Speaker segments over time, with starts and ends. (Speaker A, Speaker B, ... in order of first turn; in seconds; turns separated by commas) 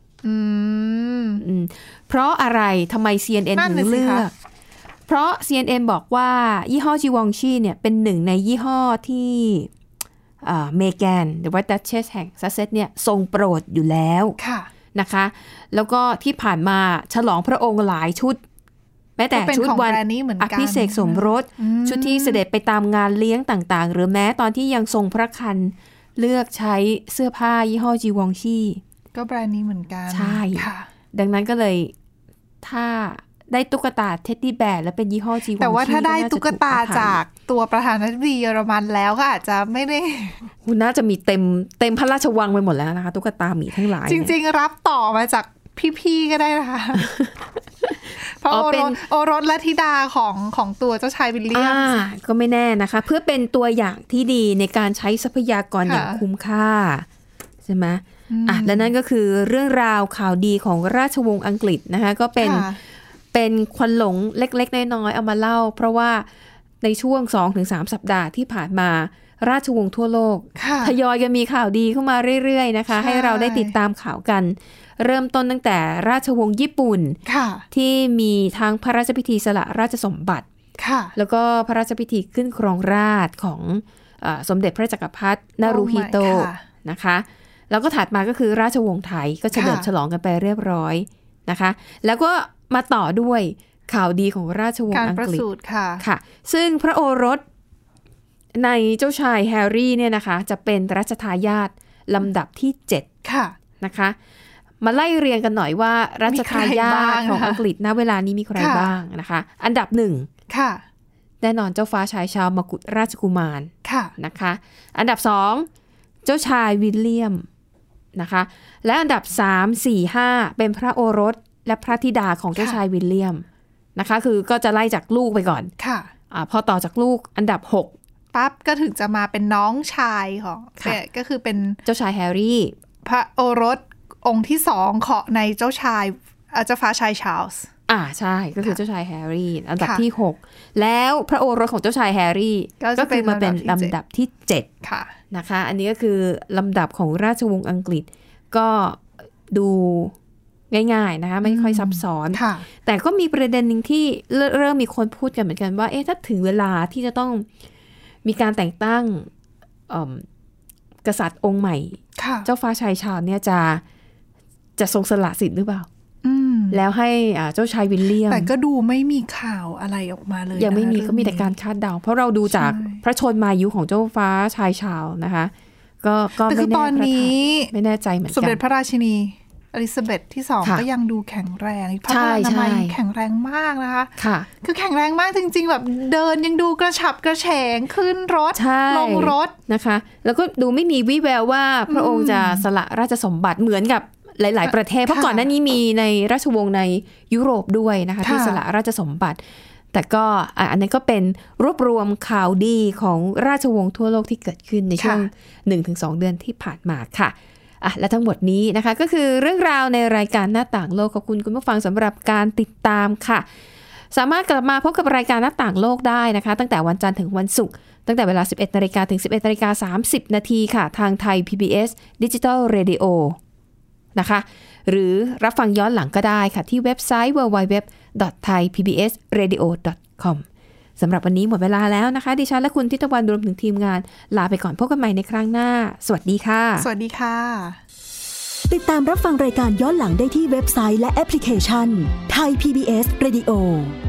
Speaker A: 0.2-1.4, Speaker B: 1.4-4.3, Speaker A: 3.5-4.2, Speaker B: 5.1-9.7, Speaker B: 10.4-14.4, Speaker A: 14.4-14.7, Speaker B: 14.9-18.4, Speaker B: 19.2-28.8, Speaker A: 19.3-22.4, Speaker A: 29.1-30.9, Speaker B: 30.1-31.9, Speaker B: 32.6-37.2, Speaker A: 35.6-40.5, Speaker B: 40.6-44.3, Speaker A: 44.0-47.1, Speaker B: 47.0-47.3, Speaker B: 47.8-49.0, Speaker A: 48.4-52.0, Speaker B: 51.5-57.0, Speaker A: 55.9-56.2, Speaker B: 57.6-62.6, Speaker A: 58.3-58.9, Speaker A: 62.4-62.8, Speaker B: 63.3-66.3, Speaker B: 66.8-77.2, Speaker A: 70.6-70.9, Speaker A: 72.9-73.7, Speaker A: 77.2-77.6, Speaker B: 77.7-80.5, Speaker A: 80.8-81.1, Speaker B: 81.1-95.4, Speaker A: 85.6-86.6, Speaker A: 89.5-89.9, Speaker A: 94.9-96.0, Speaker B: 96.0-97.4, Speaker B: 98.5-103.0, Speaker A: 103.2-103.5, Speaker B: 103.8-104.2, Speaker B: 104.8-110.3, Speaker A: 106.3-107.6, Speaker A: 108.6-108.9, Speaker A: 110.5-110.8, Speaker B: 111.4-115.7, Speaker A: 113.8-114.1, Speaker B: 116.2-117.5, Speaker B: 118.1-123.4, Speaker B: 124.0-125.7, Speaker A: 125.8-126.1, Speaker B: 126.3-127.9, Speaker A: 128.3-131.8, Speaker B: 131.8-132.7, Speaker A: 133.0-137.7, Speaker B: 137.9-144.7, Speaker A: 142.8-143.9, Speaker A: 144.8-145.1, Speaker B: 145.3-150.1, Speaker B: 150.7-157.5, Speaker A: 151.4-152.6, Speaker B: 158.2-159.3, Speaker B: 159.9-160.2, Speaker B: 161.0-163.8, Speaker A: 162.2-162.5, Speaker B: 164.8-165.9, Speaker A: 166.2-166.8, Speaker B: 166.7-168.5, Speaker A: 168.3-171.5, Speaker B: 170.6-178.6, Speaker A: 172.5-173.0, Speaker A: 176.4-177.7, Speaker A: 178.3-189.5, Speaker B: 182.1-182.9, Speaker B: 184.2-184.5, Speaker B: 188.5-199.4, Speaker A: 191.9-192.6, Speaker A: 195.1-195.4, Speaker A: 198.2-198.6, Speaker B: 199.9-213.4, Speaker A: 205.0-205.3, Speaker B: 214.1-223.4, Speaker B: 224.2-230.4, Speaker B: 231.0-236.9, Speaker A: 236.8-237.8, Speaker C: 238.7-243.9